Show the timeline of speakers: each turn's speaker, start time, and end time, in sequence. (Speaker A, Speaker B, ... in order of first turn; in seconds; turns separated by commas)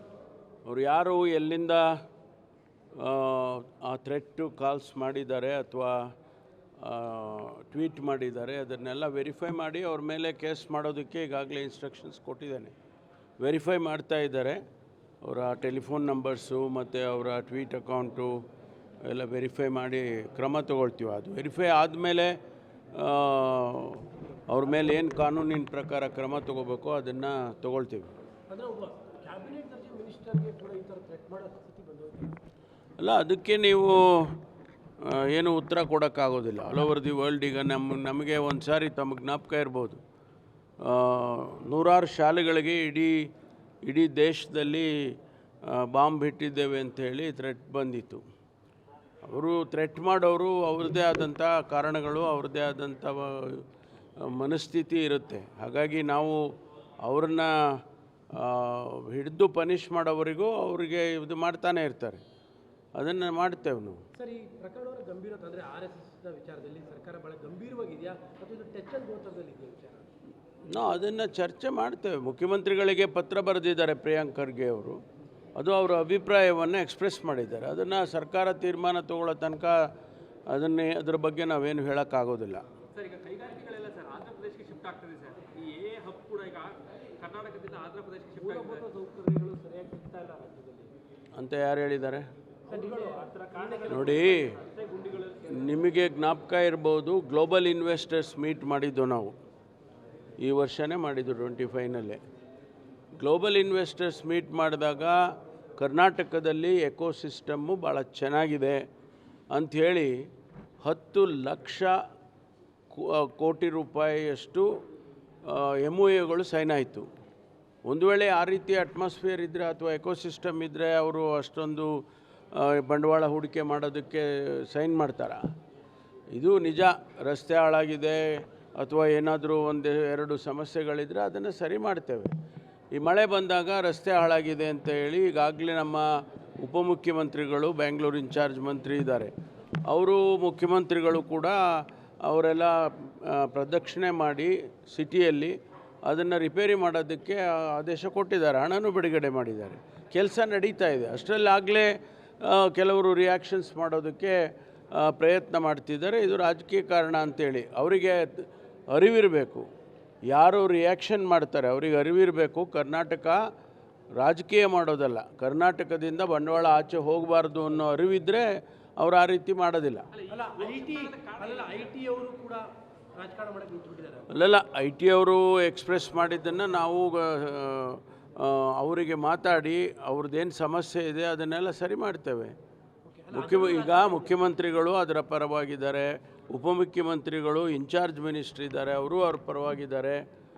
Speaker A: 0.6-2.0, Speaker A: 2.9-6.1, Speaker A: 6.8-12.7, Speaker A: 13.4-14.6, Speaker A: 15.2-18.4, Speaker A: 19.0-22.4, Speaker A: 22.9-28.1, Speaker B: 28.5-32.4, Speaker A: 33.0-34.3, Speaker A: 35.0-40.0, Speaker A: 40.8-43.3, Speaker A: 43.9-45.1, Speaker A: 45.6-48.2, Speaker A: 49.2-53.6, Speaker A: 54.2-56.4, Speaker A: 57.0-57.5, Speaker A: 58.3-62.2, Speaker A: 63.0-64.0, Speaker B: 64.1-70.0, Speaker A: 70.7-75.0, Speaker A: 75.5-79.9, Speaker A: 80.5-82.6, Speaker C: 82.9-88.8, Speaker B: 88.4-90.9, Speaker A: 91.4-92.3, Speaker B: 92.7-94.5, Speaker C: 92.7-95.7, Speaker A: 93.9-94.6, Speaker A: 95.5-99.3, Speaker A: 100.4-102.2, Speaker A: 103.2-105.2, Speaker A: 105.8-108.8, Speaker A: 109.5-110.1, Speaker A: 110.8-112.0, Speaker A: 112.9-114.7, Speaker A: 115.4-117.1, Speaker A: 117.8-121.9, Speaker A: 122.5-125.4, Speaker A: 126.3-132.3, Speaker A: 132.9-139.3, Speaker A: 139.9-154.4, Speaker A: 154.9-159.7, Speaker A: 160.3-163.4, Speaker A: 164.2-170.1, Speaker C: 170.1-171.9, Speaker B: 170.3-172.6, Speaker B: 173.2-174.3, Speaker A: 174.3-182.5, Speaker B: 183.1-184.4, Speaker A: 183.3-190.2